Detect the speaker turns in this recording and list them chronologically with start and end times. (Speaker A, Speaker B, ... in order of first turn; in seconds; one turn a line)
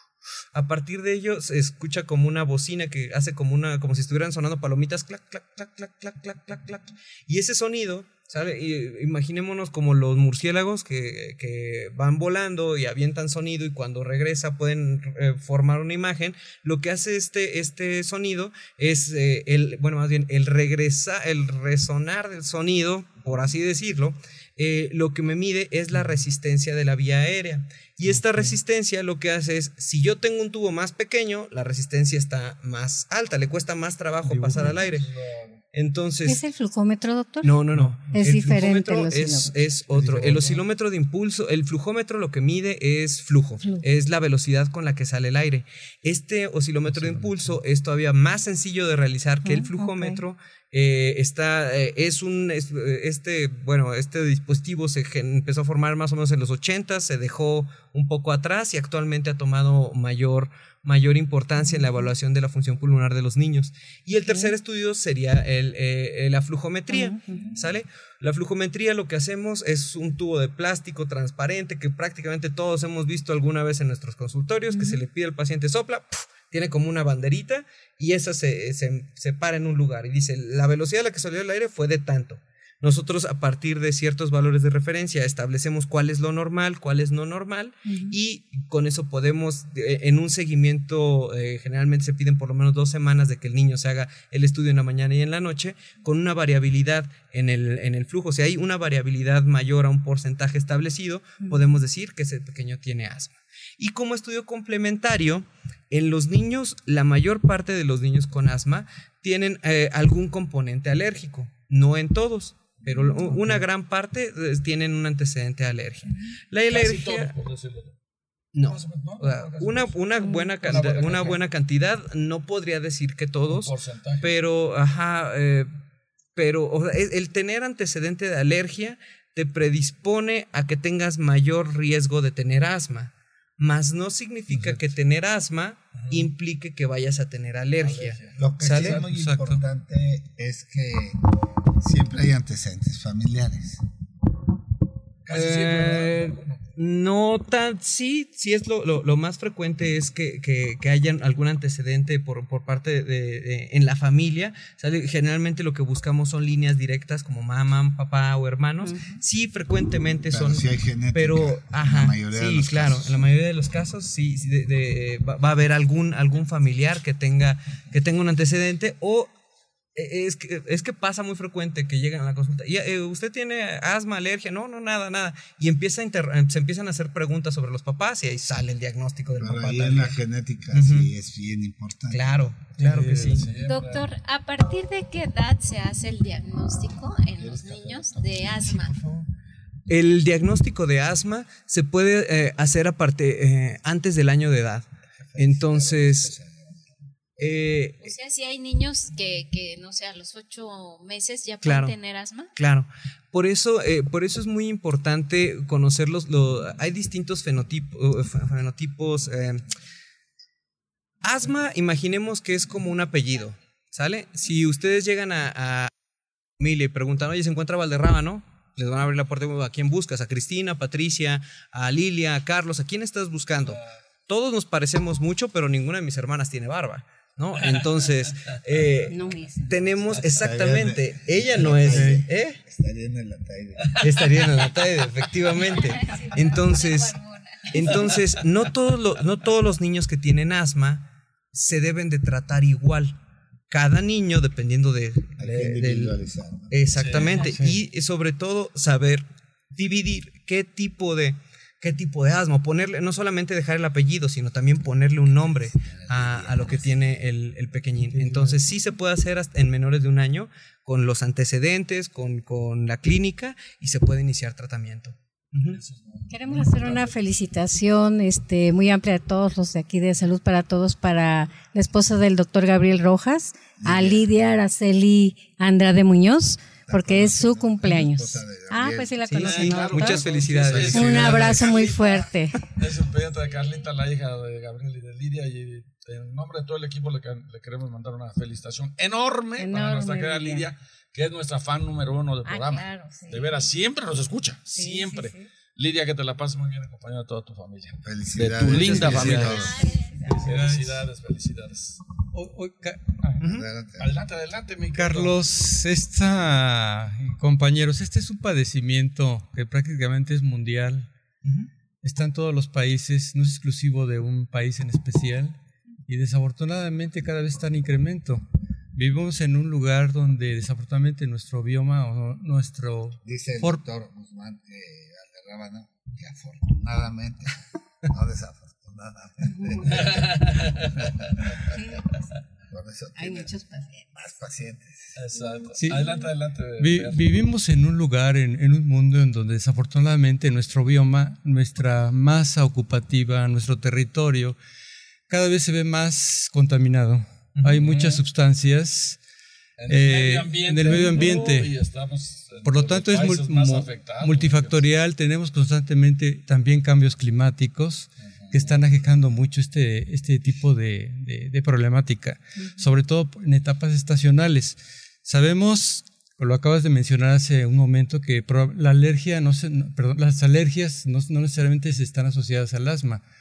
Speaker A: 0.5-35.1
Speaker B: 28.0-28.6
Speaker B: 34.2-34.8
Speaker C: 34.8-35.6
Speaker A: 35.7-36.4
Speaker D: 36.2-37.6
Speaker A: 37.4-117.3
Speaker B: 37.7-38.1
Speaker D: 38.1-39.5
Speaker B: 39.9-40.6
Speaker C: 40.0-40.5
Speaker D: 49.4-50.2
Speaker D: 64.3-64.5
Speaker D: 66.9-67.6
Speaker D: 74.7-75.0
Speaker D: 87.8-88.2
Speaker D: 112.9-113.3
Speaker C: 113.0-113.6
Speaker C: 116.7-117.9
Speaker A: 118.5-125.7
Speaker C: 118.7-120.1
Speaker D: 120.2-120.7
Speaker C: 120.6-121.4
Speaker C: 123.5-124.3
Speaker A: 126.3-139.0
Speaker B: 134.5-134.8
Speaker C: 135.9-136.3
Speaker C: 137.8-139.1
Speaker E: 138.4-143.8
Speaker B: 139.0-139.6
Speaker C: 145.2-146.6
Speaker A: 145.3-169.3
Speaker D: 158.8-159.2
Speaker E: 160.3-163.2
Speaker A: 169.9-180.2
Speaker E: 179.4-182.5
Speaker A: 180.7-181.1
Speaker A: 182.1-183.5
Speaker C: 182.8-184.1
Speaker B: 183.0-183.3
Speaker F: 183.6-188.9
Speaker E: 187.3-188.6
Speaker A: 188.6-189.3
Speaker A: 189.9-196.3
Speaker E: 195.3-196.7
Speaker A: 197.4-198.1
Speaker F: 198.0-202.5
Speaker A: 201.6-202.0
Speaker A: 202.6-209.6
Speaker A: 211.2-215.9
Speaker A: 216.6-232.6
Speaker D: 229.1-229.8
Speaker E: 230.1-233.9
Speaker C: 231.9-232.2
Speaker A: 234.0-243.2
Speaker F: 235.5-238.0
Speaker A: 243.7-246.2
Speaker E: 245.4-246.7
Speaker A: 246.7-265.8
Speaker C: 246.9-247.4
Speaker B: 247.3-247.8
Speaker E: 255.3-256.9
Speaker B: 258.1-258.6
Speaker C: 265.6-267.1
Speaker D: 266.3-280.2
Speaker E: 273.8-274.3
Speaker E: 276.9-279.1
Speaker A: 279.3-281.6
Speaker C: 279.3-299.7
Speaker D: 280.9-282.7
Speaker D: 289.6-290.7
Speaker D: 292.4-293.7
Speaker D: 294.7-295.5
Speaker E: 298.0-299.9
Speaker B: 298.9-299.6
Speaker D: 298.9-300.5
Speaker F: 299.3-300.2
Speaker C: 300.3-302.0
Speaker B: 300.4-301.1
Speaker B: 302.3-303.4
Speaker A: 303.4-303.7
Speaker E: 303.4-304.1
Speaker C: 304.0-305.4
Speaker B: 304.9-311.1
Speaker A: 311.4-311.7
Speaker B: 312.0-315.6
Speaker B: 316.1-323.8
Speaker E: 323.2-331.0
Speaker D: 329.5-330.0
Speaker C: 329.9-331.3
Speaker D: 331.7-332.1
Speaker E: 332.7-333.5
Speaker D: 333.2-334.1
Speaker E: 334.1-335.1
Speaker C: 335.1-337.2
Speaker D: 335.3-335.7
Speaker B: 335.7-336.2
Speaker B: 336.8-344.6
Speaker B: 345.3-349.2
Speaker A: 347.5-347.9
Speaker C: 347.8-348.2
Speaker C: 349.8-354.8
Speaker B: 349.9-351.8
Speaker B: 352.6-373.2
Speaker C: 358.4-358.8